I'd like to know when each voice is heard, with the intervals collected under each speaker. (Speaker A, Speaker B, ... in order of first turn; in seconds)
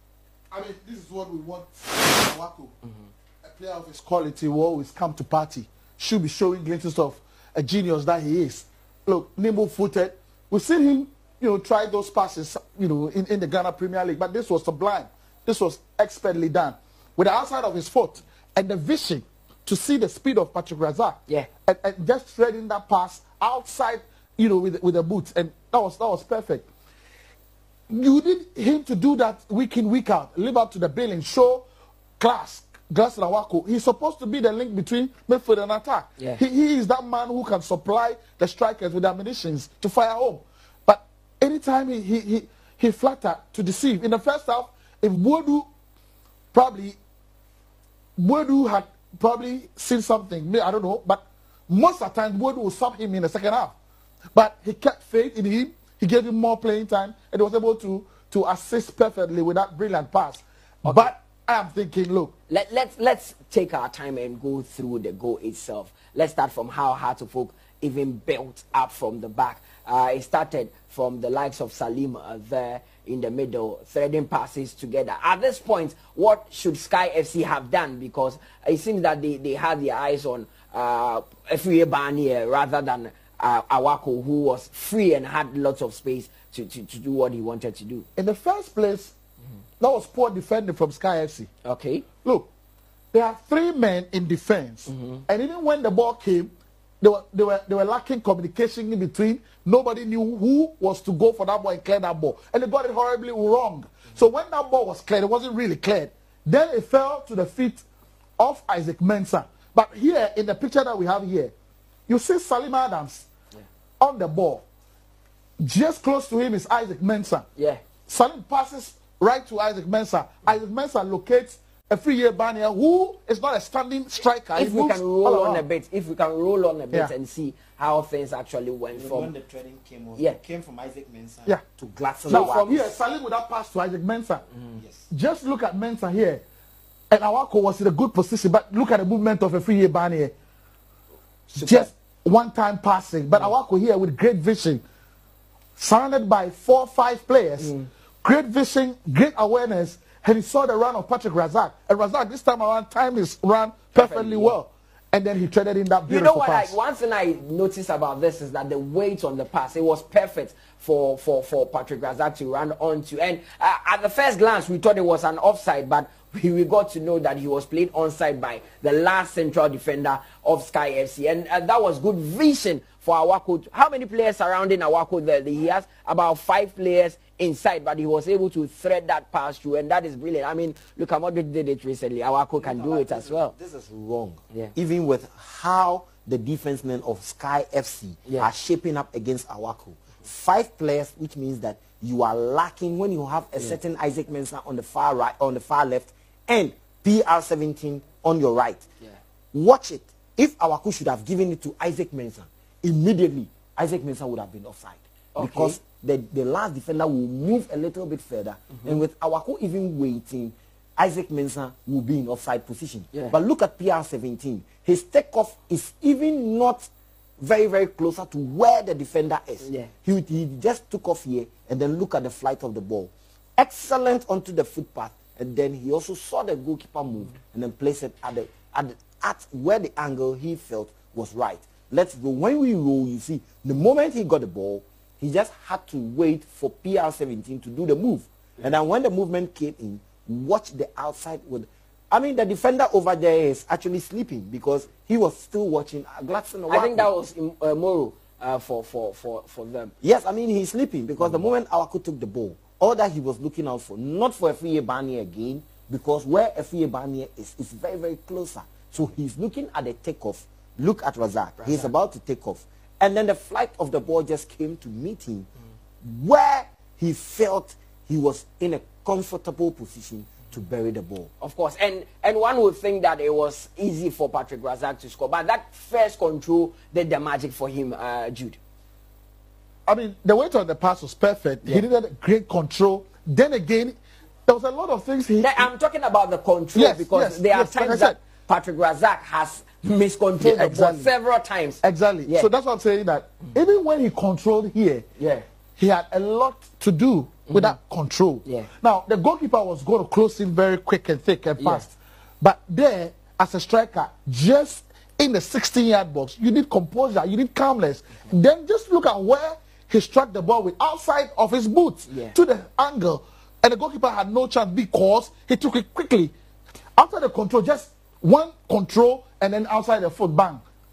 Speaker A: 0.5-2.8, 3.4-26.7, 27.9-31.6, 32.2-45.7, 46.5-47.0, 48.2-53.8, 54.3-62.3, 88.2-89.1, 89.8-91.5, 92.2-92.5, 93.1-107.8, 108.4-111.5, 112.1-113.3, 114.0-114.7, 115.6-117.5, 118.1-125.7, 132.3-134.5, 135.1-136.4, 137.1-140.3, 141.5-144.8, 145.8-156.8, 279.9-285.7, 286.7-288.2, 290.4-291.1, 291.8-295.1, 295.8-316.3, 317.0-320.6
Speaker B: 60.9-61.1, 62.5-88.1, 91.7-92.1, 94.9-95.2, 117.6-117.8, 124.5-129.3, 132.2-132.8, 141.6-141.9, 147.6-147.9, 153.9-154.6, 156.1-183.5, 205.3-205.8, 219.6-219.9, 246.7-249.9, 251.2-251.5, 261.6-261.9, 271.4-278.6, 285.4-292.5, 295.2-295.4, 297.5-297.8, 301.6-301.9, 312.1-312.4
Speaker C: 128.9-132.9, 134.8-135.1, 182.6-198.8, 199.5-216.9, 217.4-247.1, 250.0-265.5, 266.0-271.3